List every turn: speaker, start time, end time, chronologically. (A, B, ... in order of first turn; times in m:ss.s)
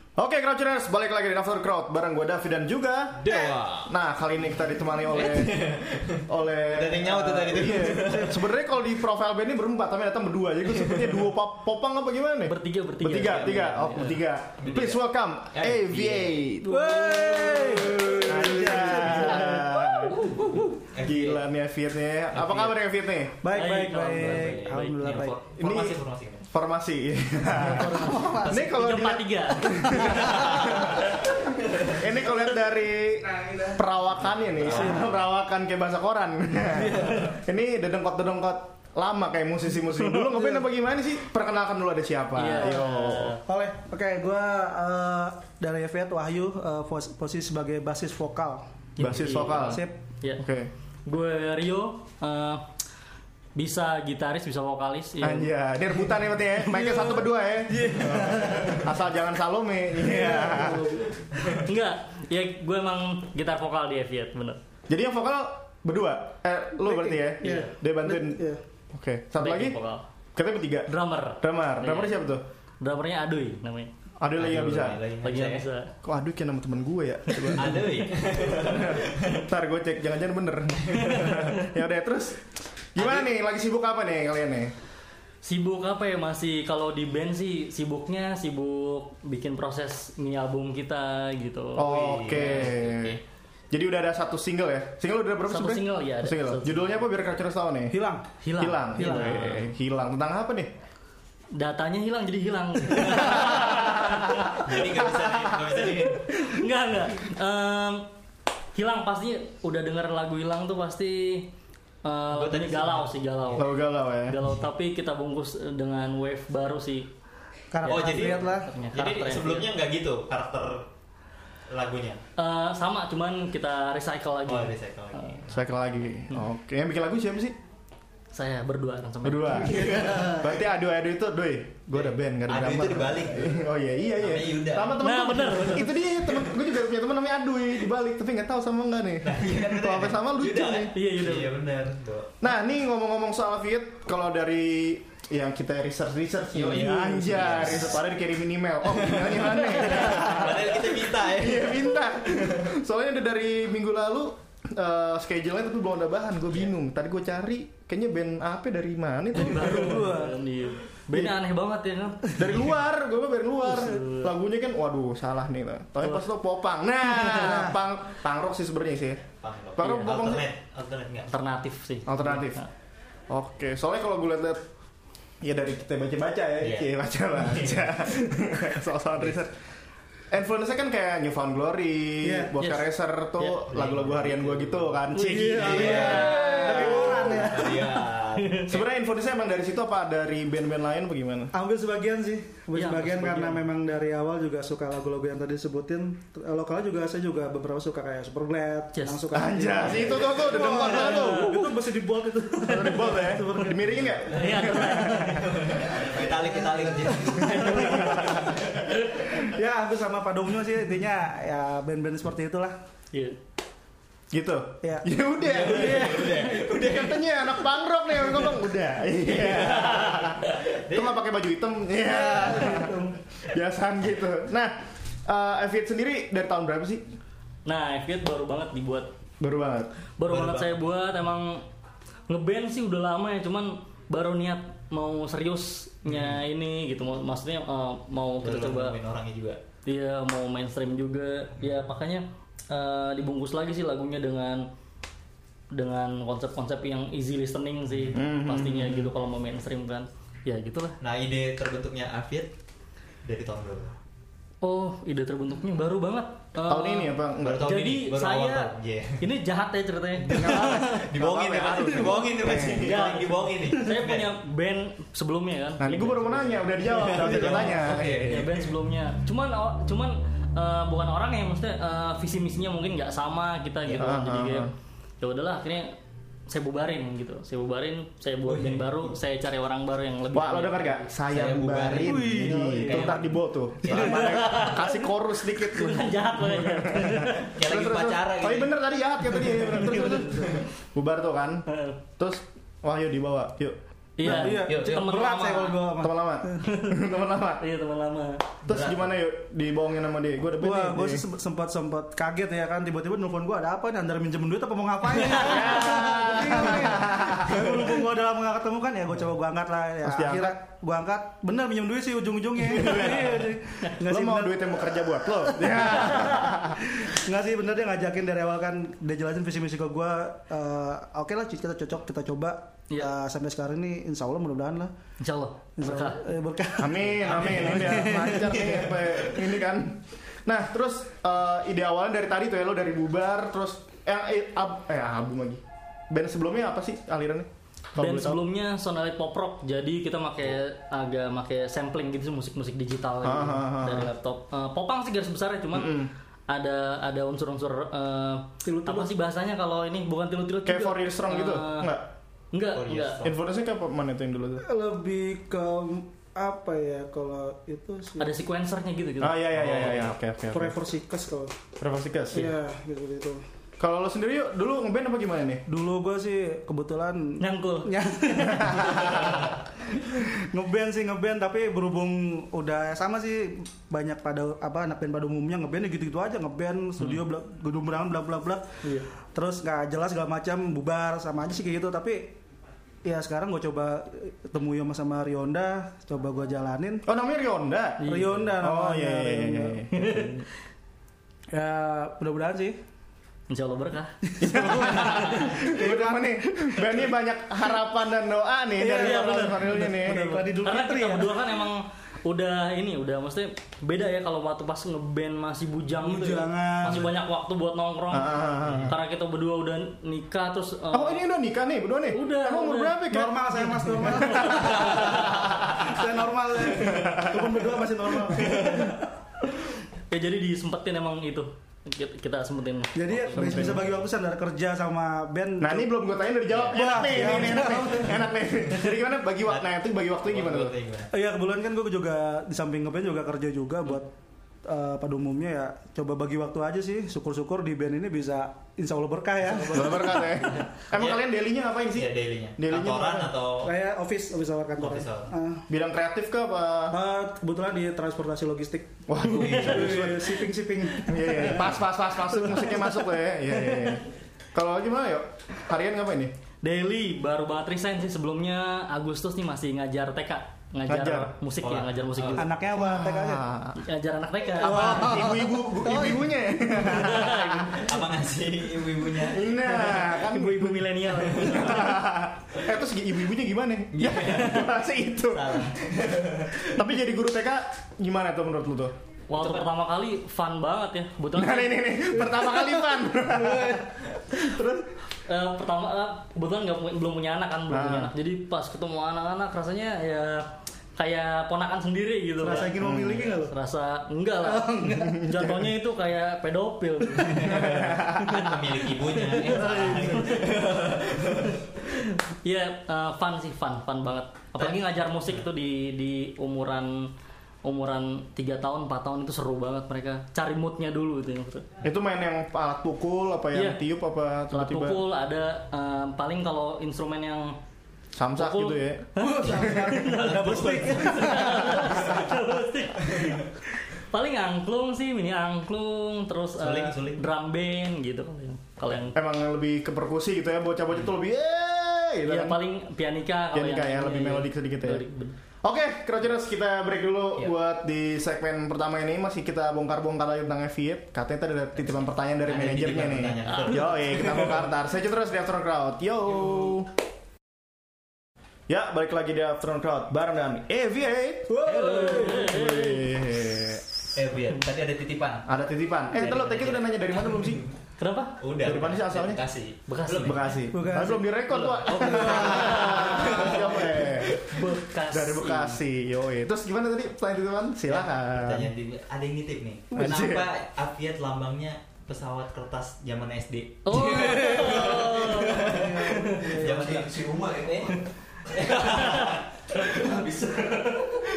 0:00.2-0:05.8 A
0:03.2-0:03.9 B
0:05.1-0:08.4 B
0:06.3-0:17.0 A
0:10.9-0:11.2 B
0:12.5-0:14.2 C
0:13.2-0:13.7 B
0:14.6-0:16.4 B
0:16.6-0:19.7 D
0:17.1-0:17.8 C
0:18.1-0:20.2 A
0:18.6-0:20.7 C
0:20.9-0:21.4 B
0:21.0-0:23.4 A
0:22.3-0:22.8 B
0:23.4-0:25.4 D
0:23.5-0:24.9 C
0:24.1-0:26.5 B
0:25.6-0:26.0 A
0:26.5-0:43.4 A
0:27.5-0:28.5 D
0:28.4-0:28.8 B
0:28.5-0:30.1 C
0:30.0-0:31.1 B
0:31.6-0:32.0 B
0:34.5-0:35.2 B
0:34.7-0:35.1 D
0:36.8-0:37.3 D
0:40.0-0:40.6 D
0:42.4-0:43.4 C
0:43.5-0:48.7 D
0:49.0-0:50.4 C
0:49.0-0:49.8 A
0:49.7-0:50.0 D
0:50.4-0:50.7 A
0:51.1-0:52.6 C
0:53.6-0:55.6 C
0:55.2-1:01.1 A
0:56.6-0:57.2 C
0:57.7-0:58.9 D
1:00.0-1:01.2 D
1:01.6-1:04.6 C
1:04.9-1:09.8 A
1:06.8-1:08.6 D
1:09.4-1:10.0 C
1:10.4-1:12.4 A
1:10.9-1:12.3 C
1:12.8-1:13.9 C
1:14.2-1:15.0 A
1:14.4-1:15.6 B
1:15.2-1:15.9 C
1:16.0-1:22.4 A
1:17.3-1:17.6 C
1:17.5-1:19.5 B
1:20.9-1:21.2 B
1:21.1-1:21.6 C
1:23.0-1:24.7 A
1:23.0-1:23.3 B
1:25.4-1:31.9 C
1:31.8-1:33.2 A
1:31.8-1:33.2 B
1:33.7-1:38.0 A
1:35.5-1:37.0 C
1:37.9-1:38.2 D
1:38.4-1:39.7 C
1:38.6-1:40.7 A
1:39.0-1:39.5 D
1:41.5-1:44.8 C
1:43.1-1:44.6 A
1:44.6-1:46.3 B
1:45.2-1:45.5 A
1:45.8-1:48.1 C
1:48.8-1:51.5 C
1:52.0-1:53.7 C
1:52.3-1:53.6 B
1:53.6-1:54.4 A
1:54.3-1:57.1 C
1:57.7-1:58.7 D
1:57.8-1:59.7 C
1:57.8-2:00.8 B
2:01.7-2:02.2 B
2:02.4-2:05.4 C
2:04.5-2:05.7 B
2:05.5-2:07.6 A
2:08.3-2:10.0 C
2:09.2-2:21.0 A
2:09.7-2:10.3 B
2:11.9-2:13.6 B
2:14.2-2:15.0 B
2:15.0-2:16.0 C
2:19.2-2:22.4 B
2:20.9-2:21.5 C
2:22.4-2:40.2 A
2:26.5-2:28.0 B
2:28.9-2:32.7 B
2:30.0-2:30.3 C
2:39.3-2:42.7 C
2:39.5-2:40.4 D
2:42.4-2:49.3 A
2:43.6-2:44.3 C
2:46.0-2:46.3 C
2:47.2-2:47.7 D
2:49.4-2:51.3 B
2:49.8-2:50.5 A
2:49.8-2:50.1 C
2:51.3-2:52.7 C
2:52.1-2:52.6 A
2:53.3-2:54.6 A
2:55.4-2:59.5 A
2:56.6-2:58.1 B
3:00.3-3:07.6 A
3:02.2-3:02.6 D
3:02.6-3:02.9 C
3:03.4-3:08.9 B
3:05.1-3:07.0 C
3:05.2-3:08.1 D
3:08.4-3:08.7 C
3:08.7-3:11.5 A
3:11.5-3:24.2 D
3:12.7-3:13.6 C
3:18.9-3:19.2 C
3:19.3-3:21.7 A
3:20.7-3:21.7 C
3:22.6-3:25.9 A
3:22.7-3:23.0 C
3:24.3-3:25.7 C
3:25.4-3:28.8 B
3:25.9-3:28.2 D
3:27.3-3:28.4 C
3:27.4-3:28.5 A
3:29.2-3:32.8 D
3:34.3-3:47.0 A
3:34.8-3:36.4 D
3:35.4-3:37.4 B
3:39.2-3:41.2 B
3:42.0-3:43.2 D
3:47.7-3:49.1 C
3:49.4-3:49.9 A
3:50.2-3:51.6 C
3:50.3-3:50.8 B
3:52.3-3:59.0 C
3:56.1-3:56.4 B
3:58.4-3:59.6 B
3:59.9-4:04.7 C
4:05.7-4:11.0 C
4:07.9-4:08.2 B
4:08.1-4:09.1 A
4:11.0-4:12.5 B
4:13.2-4:13.9 B
4:14.6-4:21.1 C
4:16.6-4:17.7 A
4:17.4-4:19.2 B
4:20.3-4:24.3 B
4:20.3-4:20.9 D
4:21.1-4:23.0 A
4:21.8-4:22.2 D
4:22.8-4:26.8 C
4:25.8-4:28.5 A
4:26.9-4:28.7 B
4:27.2-4:27.7 D
4:27.4-4:35.9 C
4:33.9-4:34.1 B
4:34.0-4:34.7 A
4:36.5-4:41.1 C
4:38.5-4:39.2 B
4:40.3-4:51.7 A
4:41.3-4:44.8 B
4:42.0-4:43.2 D
4:44.2-4:45.0 C
4:45.6-4:47.6 C
4:47.4-4:48.8 B
4:49.5-4:50.6 B
4:49.6-4:50.4 C
4:51.7-4:52.0 C
4:52.2-4:53.8 A
4:54.2-4:55.9 C
4:54.2-4:56.6 D
4:54.4-4:55.0 B
4:56.0-4:57.6 A
4:56.6-4:57.0 C
4:57.6-4:58.4 C
4:58.6-4:59.2 B
4:58.7-5:01.2 A
5:00.6-5:24.9 D
5:05.3-5:07.9 A
5:10.0-5:10.6 A
5:12.7-5:13.5 A
5:14.0-5:16.8 A
5:25.2-5:26.2 C
5:25.8-5:28.9 D
5:26.8-5:38.4 A
5:27.1-5:29.0 B
5:38.0-5:46.0 C
5:43.2-5:44.1 A
5:45.7-5:46.1 A
5:46.5-5:51.9 C
5:48.6-5:49.1 D
5:50.6-5:52.1 A
5:52.5-5:53.2 C
5:52.7-5:53.4 B
5:53.2-5:54.6 A
5:54.6-5:58.3 D
5:58.2-5:59.5 C
5:59.2-6:00.8 A
5:59.6-6:00.1 B
6:00.5-6:01.6 D
6:01.8-6:02.5 A
6:02.3-6:03.4 D
6:03.8-6:05.6 A
6:05.7-6:18.7 D
6:07.4-6:07.9 C
6:08.4-6:09.3 A
6:19.3-6:22.4 D
6:23.0-6:27.1 D
6:27.1-6:30.4 A
6:28.0-6:28.5 C
6:28.0-6:29.9 D
6:29.9-6:30.4 C
6:31.5-6:32.8 D
6:33.5-6:35.5 C
6:34.3-6:37.1 D
6:34.4-6:40.5 A
6:38.8-6:41.5 D
6:38.9-6:51.2 C
6:46.0-6:47.1 D
6:48.1-6:48.9 A
6:48.6-6:48.9 B
6:50.9-6:53.4 A
6:52.1-6:53.0 C
6:53.1-6:59.1 D
6:54.0-6:55.0 C
6:54.0-6:55.9 A
6:56.8-6:57.7 A
7:00.1-7:04.0 C
7:03.0-7:05.9 D
7:03.4-7:03.9 A
7:05.6-7:10.8 A
7:06.5-7:07.9 B
7:06.7-7:08.3 D
7:10.2-7:11.1 B
7:11.1-7:14.1 D
7:14.6-7:20.2 D
7:19.4-7:20.7 C
7:19.6-7:23.3 A
7:20.9-7:21.2 B
7:21.9-7:23.7 B
7:23.6-7:25.6 D
7:24.8-7:25.3 B
7:25.7-7:27.0 A
7:26.9-7:28.9 D
7:29.1-7:30.4 A
7:29.2-7:30.0 B
7:29.3-7:29.7 C
7:29.5-7:31.8 D
7:31.0-7:36.3 A
7:32.4-7:32.9 D
7:36.6-7:42.5 C
7:40.9-7:41.3 A
7:41.6-7:42.5 B
7:42.4-7:43.5 D
7:42.7-7:43.8 A
7:43.8-7:45.3 C
7:44.6-7:47.2 D
7:44.6-7:47.9 A
7:46.9-7:47.9 C
7:47.8-7:49.9 B
7:49.2-7:55.8 A
7:49.9-7:52.0 C
7:53.9-7:54.7 B
7:55.3-7:56.8 B
7:56.5-7:58.9 A
7:59.3-8:02.0 C
8:01.3-8:04.9 A
8:02.2-8:03.9 D
8:05.3-8:10.5 C
8:07.7-8:08.1 A
8:11.0-8:20.7 C
8:12.4-8:13.5 D
8:12.8-8:13.3 A
8:14.4-8:15.3 D
8:15.0-8:15.7 A
8:17.3-8:21.6 B
8:17.4-8:18.4 A
8:19.6-8:20.4 D
8:21.4-8:27.1 C
8:27.6-8:31.7 C
8:31.8-8:35.1 A
8:33.5-8:33.8 C
8:34.5-8:37.6 C
8:38.2-8:39.1 A
8:38.4-8:49.2 C
8:39.2-8:42.1 D
8:39.4-8:41.6 B
8:43.1-8:43.4 B
8:46.6-8:47.2 B
8:49.1-8:52.6 A
8:52.3-8:55.4 C
8:53.5-8:55.0 A
8:55.6-9:06.9 A
9:02.4-9:04.6 B
9:03.6-9:03.9 C
9:08.7-9:13.8 A
9:11.5-9:12.6 D
9:11.7-9:13.2 C
9:14.2-9:15.5 B
9:15.5-9:17.7 A
9:16.2-9:17.7 B
9:18.0-9:18.4 C
9:18.4-9:20.6 B
9:18.6-9:19.4 A
9:19.9-9:20.4 C
9:20.2-9:24.4 A
9:20.7-9:21.3 D
9:21.5-9:23.8 C
9:21.9-9:24.6 B
9:21.9-9:22.4 D
9:24.4-9:25.8 C
9:25.1-9:28.7 A
9:27.9-9:40.8 B
9:30.0-9:30.5 A
9:33.8-9:37.1 C
9:34.5-9:36.9 D
9:38.6-9:41.1 C